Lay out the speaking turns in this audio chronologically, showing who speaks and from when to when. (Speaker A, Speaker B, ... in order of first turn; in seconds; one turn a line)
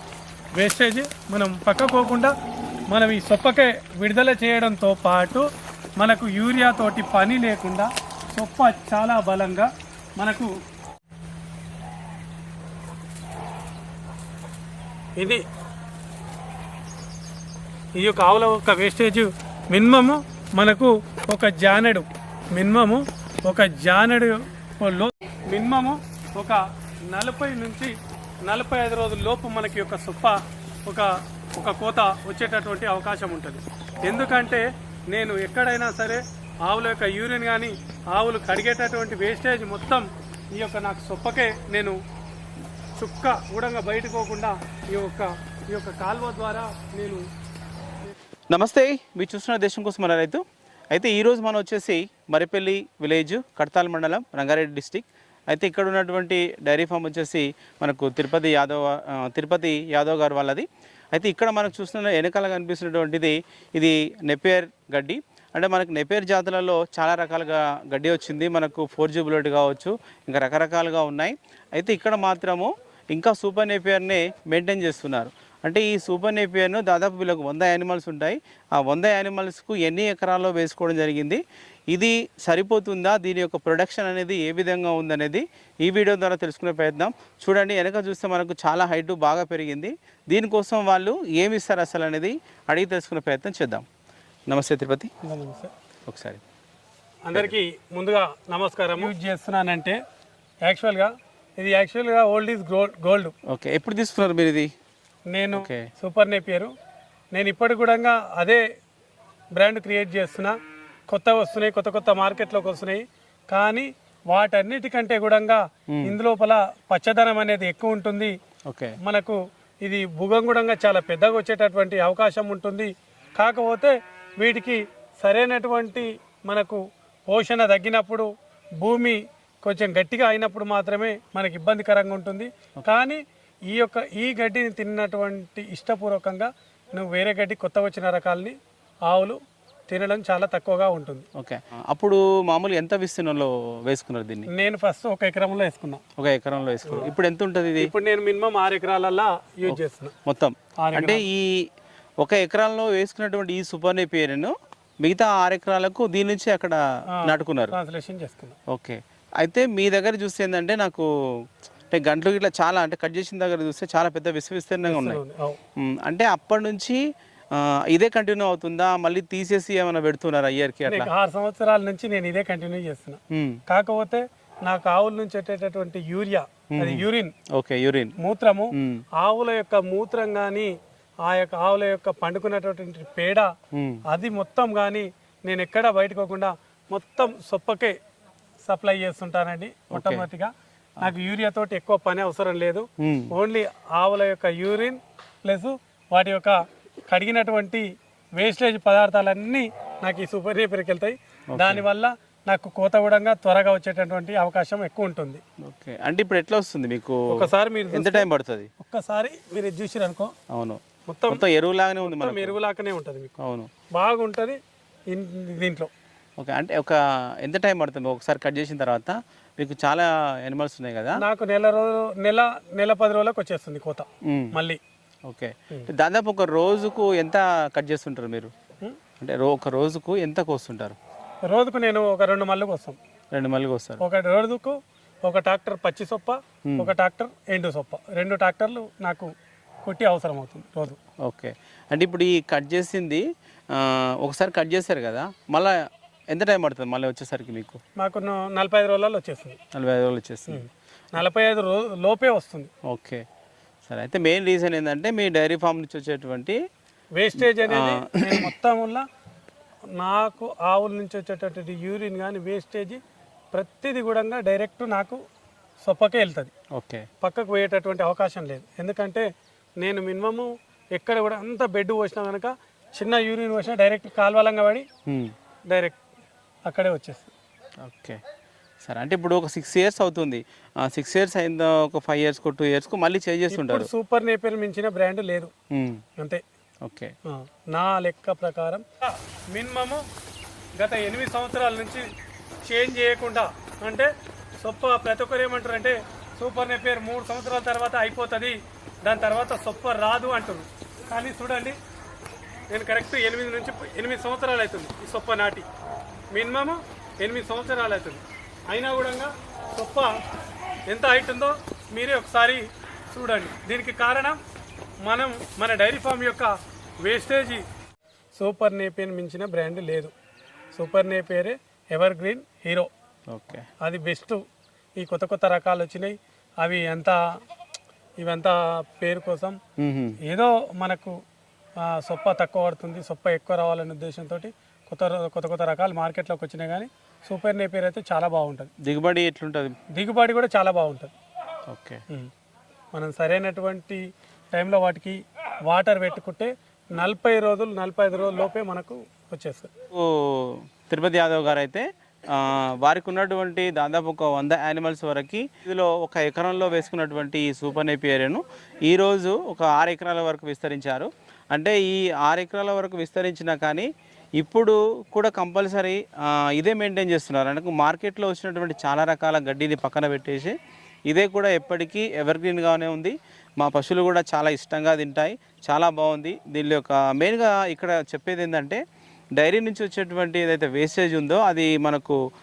Speaker A: 0.6-2.3
Speaker A: 2.9-5.5
Speaker A: 6.0-10.5
Speaker A: 18.0-27.9
Speaker A: 28.5-42.0
Speaker A: 43.0-47.2
Speaker B: 48.5-93.9
Speaker B: 94.5-95.1
Speaker A: 95.2-95.7
Speaker B: 96.1-96.4
Speaker A: 97.3-100.0
Speaker A: 100.7-103.3
Speaker B: 103.5-104.7
Speaker A: 105.3-106.7
Speaker B: 105.5-105.9
Speaker A: 107.3-108.6
Speaker A: 109.6-110.5
Speaker A: 111.1-118.3
Speaker B: 118.7-119.0
Speaker A: 119.0-128.3
Speaker A: 128.8-133.2
Speaker A: 133.7-138.6
Speaker A: 139.1-139.4
Speaker A: 139.9-141.2
Speaker B: 141.3-144.5
Speaker A: 144.5-146.0
Speaker B: 146.2-147.9
Speaker A: 146.9-147.1
Speaker A: 147.8-150.1
Speaker B: 149.7-151.7
Speaker A: 150.8-151.2
Speaker B: 152.2-157.7
Speaker A: 157.1-158.6
Speaker B: 158.7-165.2
Speaker A: 164.9-165.6
Speaker B: 165.8-167.0
Speaker B: 167.5-171.1
Speaker A: 170.9-177.3
Speaker B: 173.3-173.6
Speaker B: 176.8-177.0
Speaker B: 177.6-178.2
Speaker A: 178.2-180.7
Speaker B: 178.8-179.0
Speaker A: 181.3-183.5
Speaker B: 183.7-184.0
Speaker A: 184.1-187.9
Speaker A: 188.7-197.8
Speaker B: 189.9-190.3
Speaker B: 193.0-193.3
Speaker A: 198.4-205.4
Speaker B: 201.6-201.8
Speaker B: 205.6-208.7
Speaker A: 207.3-208.3
Speaker A: 208.8-210.3
Speaker B: 210.5-212.6
Speaker A: 211.1-211.4
Speaker A: 212.0-213.3
Speaker B: 213.4-213.7
Speaker A: 214.0-214.6
Speaker A: 215.1-215.9
Speaker B: 216.4-221.2
Speaker A: 221.2-224.8
Speaker B: 224.3-224.6
Speaker B: 225.3-228.5
Speaker B: 229.2-231.0
Speaker A: 231.5-233.0
Speaker B: 233.3-234.0
Speaker A: 234.0-239.3
Speaker B: 236.7-236.9
Speaker A: 239.8-241.0
Speaker B: 241.2-245.8
Speaker B: 246.3-247.8
Speaker A: 248.0-249.6
Speaker B: 249.7-250.6
Speaker A: 250.5-252.7
Speaker B: 252.9-253.2
Speaker B: 253.9-256.6
Speaker A: 257.2-259.1
Speaker B: 257.4-258.5
Speaker A: 260.0-263.0
Speaker A: 263.5-265.2
Speaker A: 265.8-266.5
Speaker B: 266.8-267.1
Speaker A: 267.2-269.3
Speaker A: 269.8-274.9
Speaker B: 275.1-275.3
Speaker A: 275.7-276.0
Speaker A: 276.7-277.3
Speaker B: 277.8-278.2
Speaker B: 278.8-283.9
Speaker A: 283.5-285.5
Speaker B: 285.7-286.0
Speaker B: 286.9-287.1
Speaker A: 287.3-290.0
Speaker A: 290.8-292.0
Speaker A: 292.7-294.1
Speaker A: 294.6-301.8
Speaker A: 302.7-305.7
Speaker A: 306.3-310.1
Speaker A: 310.9-314.4
Speaker A: 315.0-316.5
Speaker A: 317.0-317.6
Speaker A: 318.4-320.1
Speaker A: 320.7-322.9
Speaker B: 323.3-323.7
Speaker A: 323.8-324.4
Speaker A: 325.0-327.2
Speaker A: 328.2-329.6
Speaker B: 329.8-330.2
Speaker A: 330.3-331.1
Speaker A: 331.8-338.7
Speaker B: 338.8-339.8
Speaker A: 339.9-341.1
Speaker B: 341.7-342.0
Speaker A: 342.9-344.0
Speaker A: 344.5-349.7
Speaker B: 349.9-370.6
Speaker B: 371.1-378.8
Speaker B: 379.4-382.2